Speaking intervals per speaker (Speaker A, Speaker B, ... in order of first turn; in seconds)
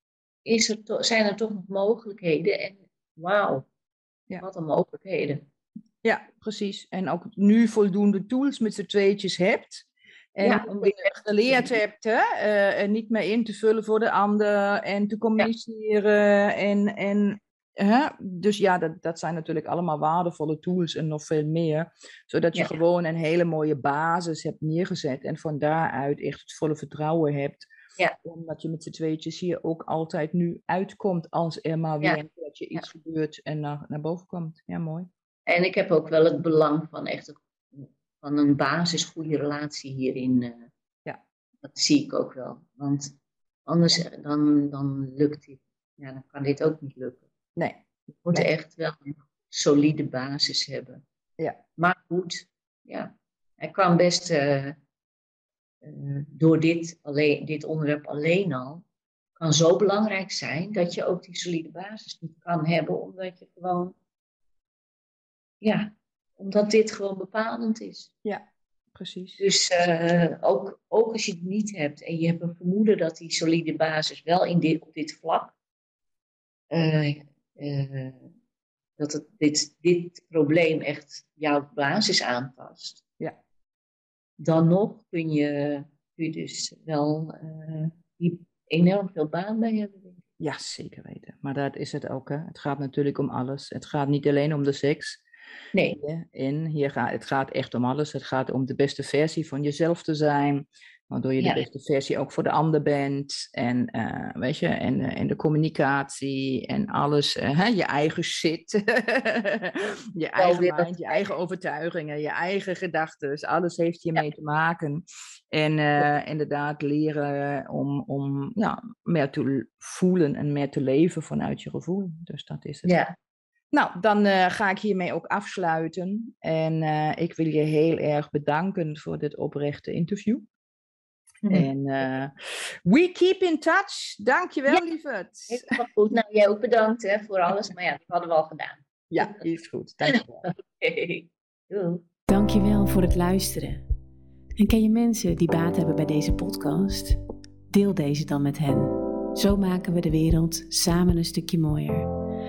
Speaker A: 0.5-3.7, 4.4-5.5, 10.4-11.8, 22.5-22.8, 35.5-40.7, 41.6-47.2, 48.3-51.0, 51.8-54.8, 55.8-58.8, 59.4-64.0, 65.6-68.1, 69.4-75.5, 76.7-78.3, 79.0-83.0, 84.4-90.2, 95.7-96.0, 101.4-101.7, 110.4-111.3, 122.8-123.1, 135.5-139.4, 140.1-142.0
Speaker B: 6.0-27.7, 28.2-35.1, 47.6-48.5, 68.2-69.5, 90.4-95.2, 96.0-122.9, 123.7-130.5, 131.5-132.3, 132.8-135.6, 139.1-140.5
Speaker C: 142.3-143.8, 144.6-147.2, 147.7-152.1